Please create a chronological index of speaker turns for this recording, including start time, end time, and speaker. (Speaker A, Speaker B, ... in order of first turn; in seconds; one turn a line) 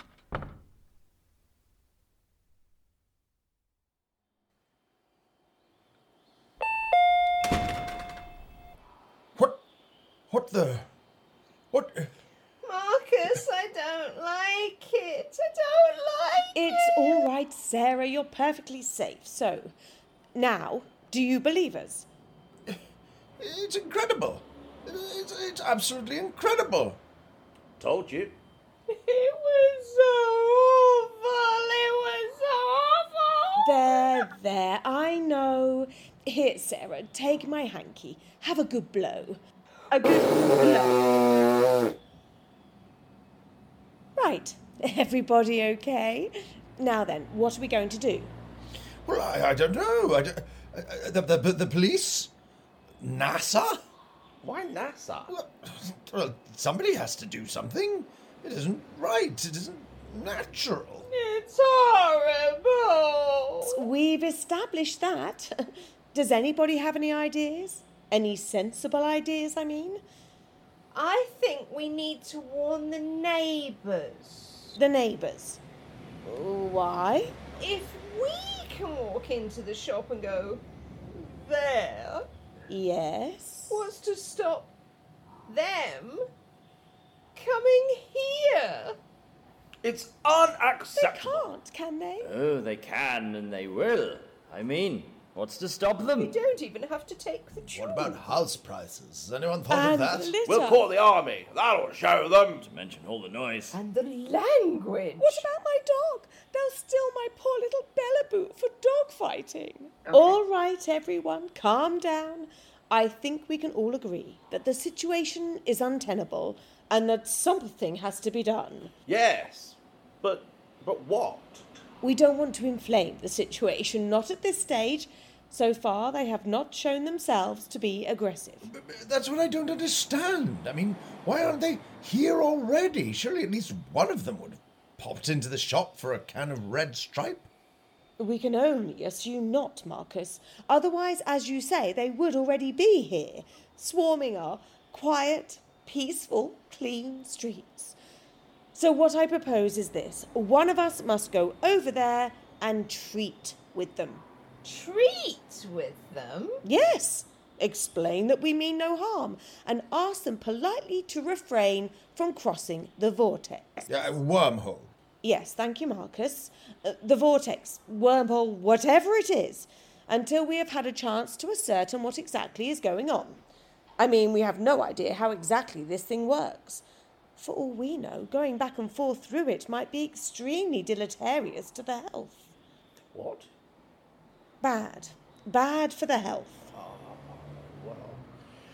Speaker A: 9.4-9.6
Speaker A: 10.3-10.9
Speaker A: 11.7-12.1
Speaker B: 12.6-17.2
Speaker C: 16.5-19.7
Speaker C: 20.4-22.1
Speaker A: 23.4-27.0
Speaker D: 27.8-28.4
Speaker B: 28.9-34.3
Speaker C: 33.6-41.1
Speaker C: 44.2-48.3
Speaker A: 49.0-52.3
Speaker A: 53.0-53.8
Speaker D: 54.4-55.3
Speaker A: 55.3-61.1
Speaker B: 61.0-63.9
Speaker C: 63.6-65.5
Speaker C: 66.1-70.0
Speaker B: 70.9-74.8
Speaker C: 74.8-75.6
Speaker C: 76.2-77.3
Speaker B: 77.6-82.3
Speaker C: 82.7-83.8
Speaker B: 83.7-84.7
Speaker B: 85.5-86.2
Speaker B: 87.3-89.0
Speaker D: 89.8-91.5
Speaker C: 90.9-92.3
Speaker E: 92.2-96.4
Speaker B: 96.0-98.2
Speaker A: 97.7-100.4
Speaker C: 99.7-100.8
Speaker D: 100.5-102.7
Speaker E: 102.6-103.8
Speaker B: 103.7-105.5
Speaker C: 105.2-118.9
Speaker D: 119.1-121.7
Speaker C: 122.0-128.7
Speaker A: 128.6-137.5
Speaker C: 138.2-147.9
Speaker C: 148.7-154.2
Speaker B: 154.6-156.6
Speaker C: 156.6-163.9
Speaker A: 163.9-164.9
Speaker C: 165.2-173.4
Speaker C: 174.0-176.8
Speaker C: 177.4-182.4
Speaker D: 183.1-183.5
Speaker C: 184.6-186.7
Speaker D: 186.7-188.2